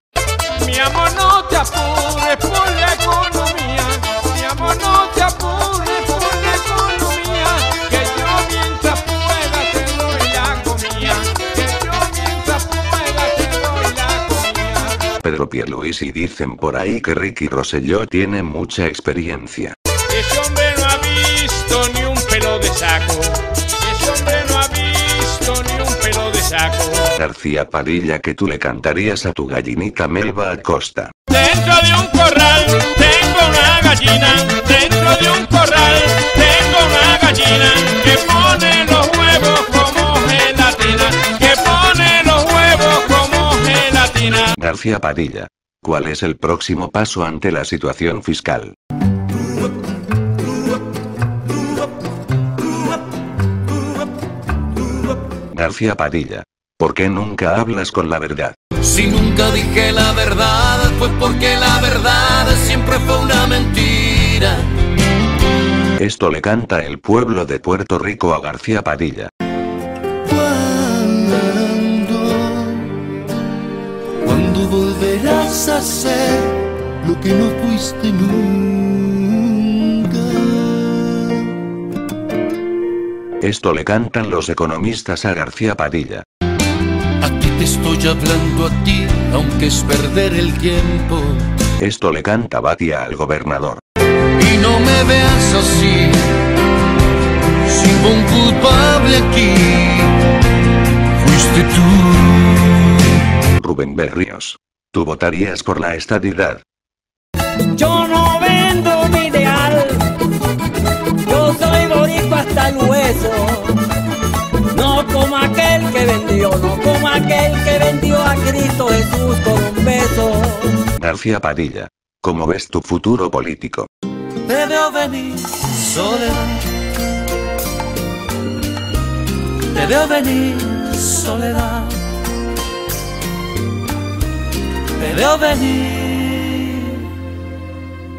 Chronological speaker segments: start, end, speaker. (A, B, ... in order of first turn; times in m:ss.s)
0:00.6-0:15.0 A
0:15.1-0:19.7 B
0:20.1-0:27.2 A
0:27.2-0:31.1 B
0:31.3-0:44.5 A
0:44.5-0:48.7 B
0:55.5-0:58.6 B
0:58.8-1:04.7 C
1:06.0-1:09.3 B
1:10.2-1:13.0 C
1:14.2-1:21.5 C
1:23.4-1:26.2 B
1:27.2-1:31.5 C
1:31.8-1:33.8 B
1:34.2-1:36.5 C
1:37.5-1:40.3 C
1:41.0-1:43.2 C
1:43.5-1:46.6 B
1:47.7-1:50.1 D
1:51.2-1:53.8 D
1:54.7-2:00.8 D
2:01.0-2:03.9 B
2:04.4-2:06.7 C
2:09.7-2:12.2 C
2:14.9-2:17.1 C